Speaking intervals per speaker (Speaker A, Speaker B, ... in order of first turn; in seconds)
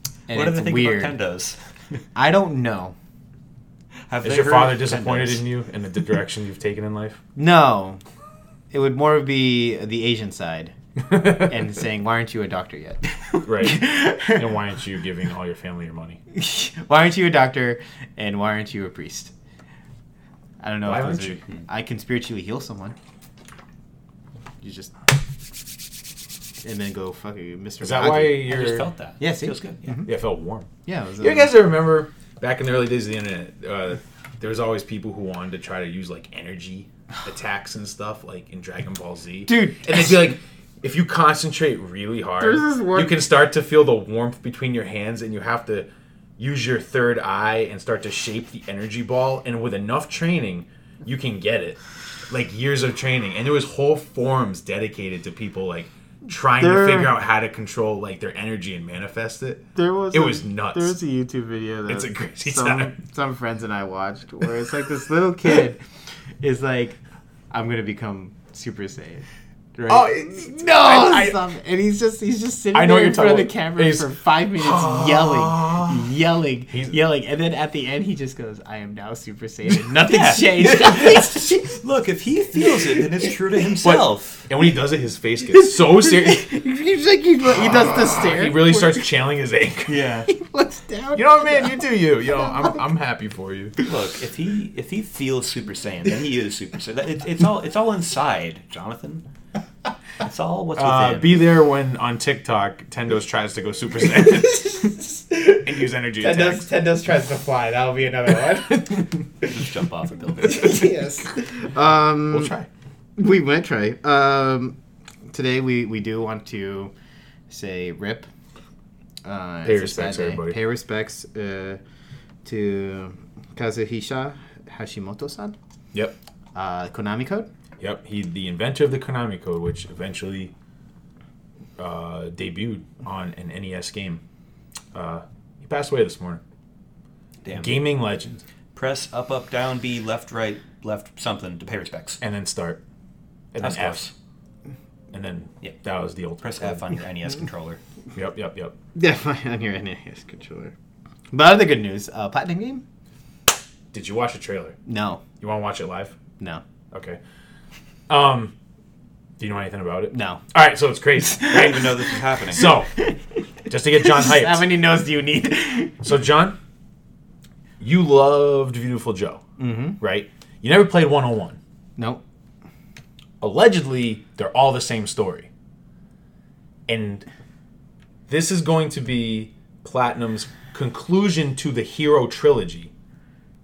Speaker A: 0.3-1.1, 2.1-2.9, 7.3-8.0, 8.7-14.5, 16.3-19.3, 20.6-22.9, 24.6-24.9, 26.6-28.6, 29.2-30.1, 30.9-31.6, 39.5-40.2, 42.4-43.2, 56.6-57.1, 59.7-65.8, 66.4-67.0, 67.5-81.8, 82.5-83.3, 85.5-89.0, 90.3-92.8, 104.1-109.5, 110.4-112.5, 113.2-114.8, 115.3-116.9, 117.5-118.3, 119.2-121.8, 122.4-125.5, 126.5-127.5, 148.9-150.7, 151.3-152.8, 154.8-155.2, 160.1-160.4, 161.4-161.8, 162.7-163.2, 163.9-166.0, 169.6-170.0
Speaker B: 0.3-2.0, 4.1-5.4, 28.2-30.0, 80.0-84.5, 89.9-90.3, 93.8-99.2, 100.2-101.4, 109.4-110.9, 137.4-137.9, 138.7-142.2, 143.6-144.1, 146.4-147.8, 161.4-162.8
Speaker C: 4.2-7.2, 13.4-16.2, 20.8-21.4, 27.8-28.9, 30.1-30.7, 31.2-61.0, 61.9-63.0, 69.9-71.4, 72.7-76.0, 83.8-86.4, 88.1-90.1, 91.1-93.8, 100.8-104.9, 105.6-106.7, 112.3-112.7, 119.6-120.6, 127.8-130.5, 131.8-134.2, 134.9-136.4, 137.6-138.4, 142.2-142.8, 143.5-144.1, 145.1-146.8, 148.1-148.7, 153.9-154.8, 155.4-156.2, 156.9-157.2, 158.1-158.5, 159.4-161.9, 162.5-162.9, 163.7-164.7, 166.0-166.6, 167.8-169.4, 170.0-171.6, 173.4-175.5, 176.9-177.2, 178.3-182.9